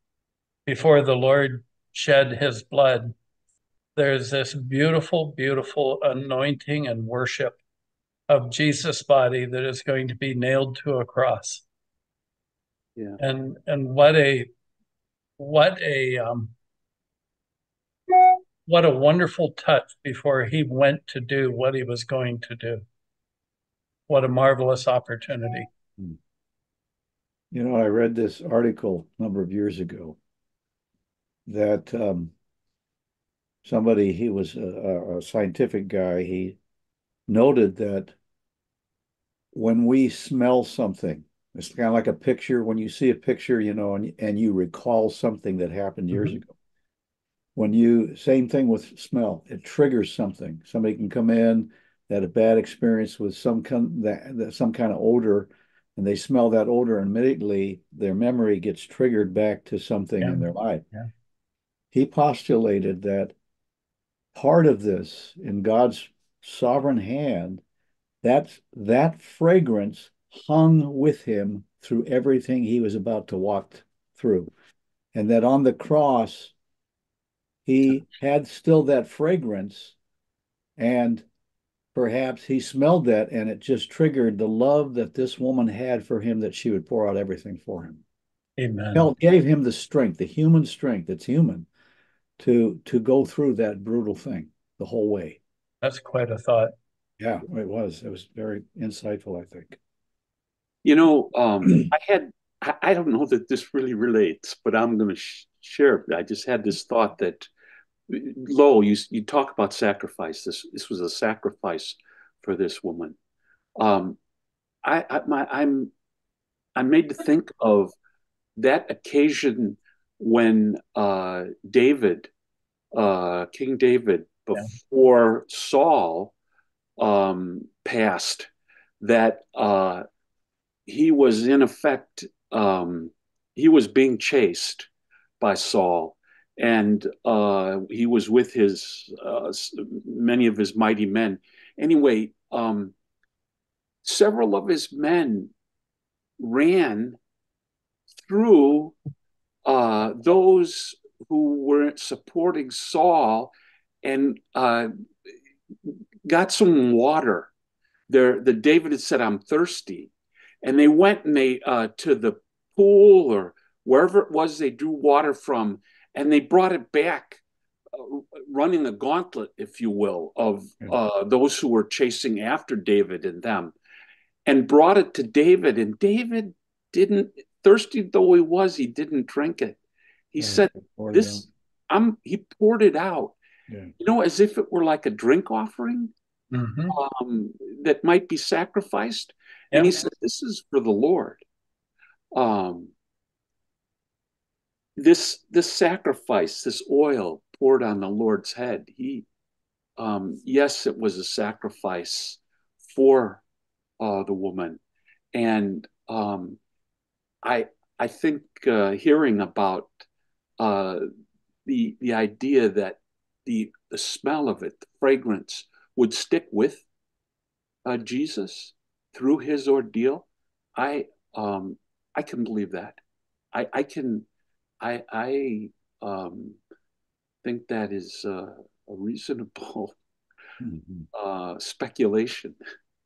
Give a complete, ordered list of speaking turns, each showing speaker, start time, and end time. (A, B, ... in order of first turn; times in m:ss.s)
0:00.7-0:03.1 A
0:04.0-0:07.6 A
0:08.3-0:11.6 A
0:13.2-0:14.5 A
0:15.4-0:16.5 A
0:18.1-0:22.8 A
0:24.1-0:25.7 A
0:27.5-0:30.2 B
0:31.5-0:32.3 B
0:33.6-0:36.6 B
0:37.3-0:38.1 B
0:39.5-0:46.5 B
0:47.6-1:00.8 B
1:00.2-1:01.1 A
1:01.9-1:03.3 B
1:04.3-1:07.6 B
1:08.2-1:14.5 B
1:15.1-1:16.5 B
1:17.7-1:20.0 B
1:20.8-1:21.2 B
1:21.9-1:28.0 B
1:28.6-1:29.1 A
1:28.9-1:31.7 B
1:32.4-1:35.4 B
1:35.8-1:36.7 A
1:37.2-1:39.8 B
1:40.8-1:47.5 C
1:48.1-1:53.2 C
1:53.8-1:54.2 C
1:54.8-1:55.9 C
1:56.8-1:57.9 C
1:58.6-2:02.3 C
2:02.9-2:06.3 C
2:07.0-2:08.5 C
2:09.0-2:10.0 C
2:10.9-2:14.9 C
2:15.4-2:22.9 C
2:24.0-2:25.5 C
2:26.4-2:27.2 C
2:28.2-2:29.0 C
2:29.6-2:34.9 C
2:35.9-2:37.5 C
2:38.1-2:40.1 C
2:40.6-2:47.4 C
2:47.9-2:53.7 C
2:54.5-2:59.8 C
3:00.3-3:03.4 C
3:00.4-3:01.4 B
3:03.7-3:03.9 B
3:04.0-3:06.1 C
3:06.5-3:07.0 A
3:06.9-3:11.4 C
3:12.3-3:12.9 C
3:15.0-3:19.3 C
3:20.0-3:23.4 C
3:24.0-3:24.8 C
3:25.3-3:26.6 C
3:27.4-3:29.9 C
3:30.6-3:31.1 C
3:31.6-3:36.8 C
3:37.8-3:43.0 C
3:43.5-3:44.3 C
3:44.8-3:46.6 C
3:47.4-3:50.0 C
3:50.6-3:51.1 B
3:51.1-3:52.6 C